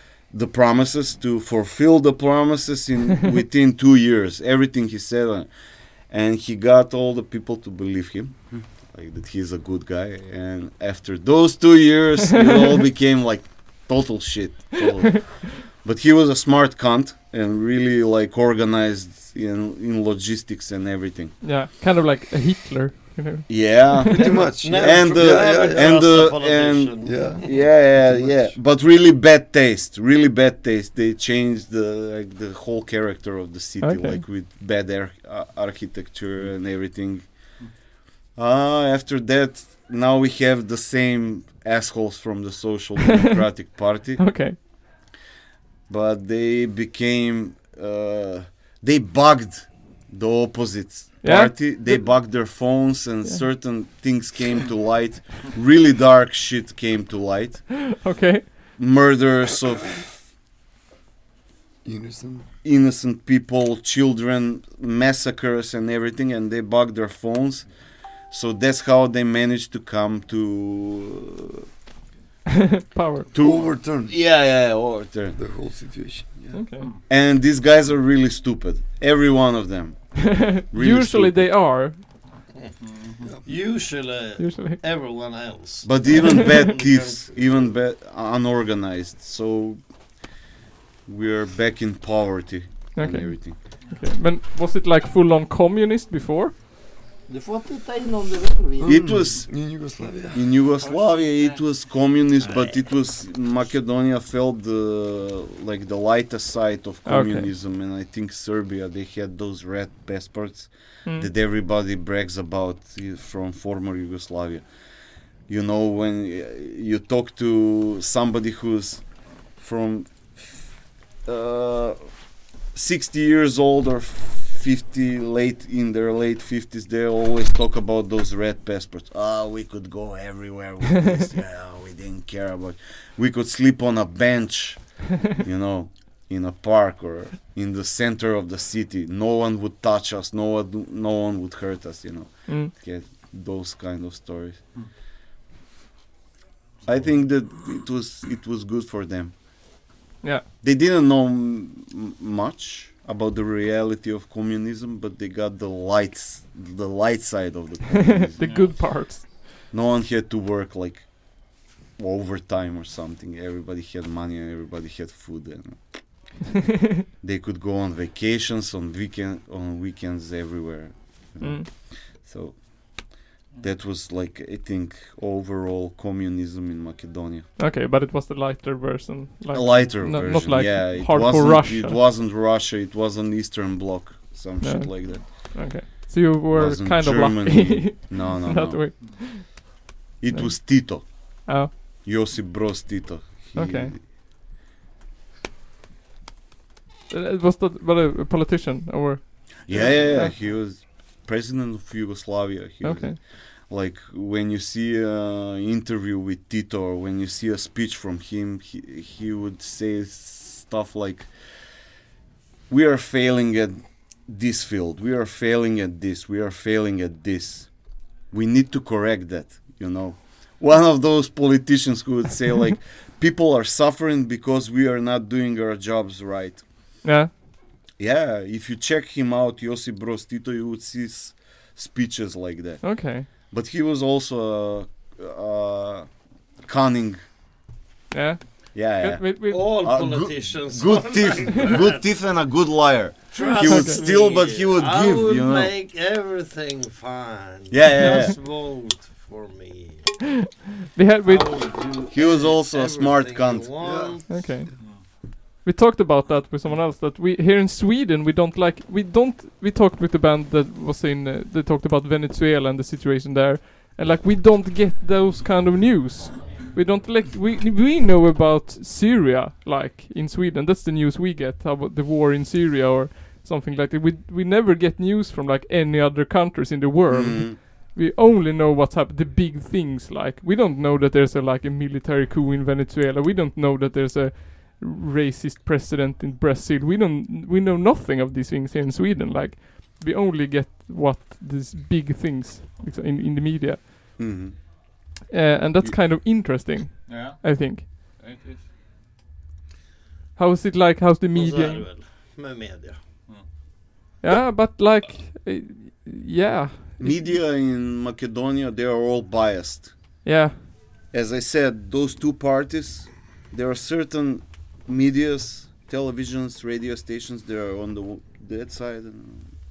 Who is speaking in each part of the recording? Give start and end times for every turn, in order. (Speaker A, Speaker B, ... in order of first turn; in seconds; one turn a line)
Speaker A: 0.3-5.5
Speaker A: 6.1-21.4
Speaker B: 21.4-24.1
Speaker A: 23.5-37.4
Speaker C: 24.1-26.4
Speaker D: 24.1-27.6
Speaker C: 27.0-28.6
Speaker B: 33.8-34.2
Speaker A: 38.4-44.4
Speaker B: 44.2-44.6
Speaker A: 45.9-57.9
Speaker B: 51.2-52.5
Speaker B: 57.9-58.5
Speaker A: 58.8-60.2
Speaker C: 61.8-62.5
Speaker A: 62.6-67.7
Speaker A: 68.3-71.7
Speaker B: 72.5-73.3
Speaker A: 73.3-75.4
Speaker C: 73.3-74.2
Speaker C: 75.4-76.6
Speaker B: 76.5-76.9
Speaker E: 76.8-77.0
Speaker A: 77.1-81.5
Speaker B: 80.2-82.0
Speaker E: 82.8-83.4
Speaker D: 83.4-87.8
Speaker B: 84.4-84.8
Speaker A: 85.8-89.8
Speaker A: 91.0-93.6
Speaker B: 93.0-96.5
Speaker D: 97.3-99.1
Speaker C: 98.8-100.5
Speaker A: 98.8-114.6
Speaker E: 100.8-101.6
Speaker B: 107.0-107.5
Speaker A: 115.5-119.0
Speaker A: 119.5-122.1
Speaker A: 122.7-144.6
Speaker E: 146.8-147.1
Speaker A: 146.9-149.4
Speaker A: 150.6-158.7
Speaker B: 158.2-159.2
Speaker E: 158.4-158.8
Speaker A: 159.7-166.5
Speaker A: 167.2-177.5
Speaker B: 171.4-171.7
Speaker B: 177.6-182.0
Speaker A: 179.5-185.7
Speaker B: 184.6-189.8
Speaker A: 186.5-188.8
Speaker E: 189.0-189.2
Speaker A: 190.2-194.0
Speaker B: 190.3-191.7
Speaker B: 193.5-193.9
Speaker B: 197.1-200.3
Speaker A: 199.7-211.3
Speaker B: 202.8-203.2
Speaker A: 212.7-226.7
Speaker B: 227.0-227.3
Speaker A: 228.0-237.2
Speaker B: 232.8-233.3
Speaker B: 238.1-239.8
Speaker A: 238.7-245.7
Speaker D: 239.5-242.0
Speaker D: 243.3-250.1
Speaker B: 243.5-244.0
Speaker A: 247.7-248.4
Speaker B: 250.9-251.6
Speaker D: 251.2-254.5
Speaker A: 252.1-253.8
Speaker C: 253.8-254.4
Speaker B: 254.3-294.4
Speaker E: 254.8-255.1
Speaker A: 277.1-277.6
Speaker A: 294.2-294.6
Speaker B: 295.3-297.9
Speaker E: 297.1-298.7
Speaker B: 300.4-301.9
Speaker D: 301.3-303.0
Speaker B: 304.2-307.4
Speaker A: 307.0-309.9
Speaker B: 310.2-310.6
Speaker A: 311.1-319.5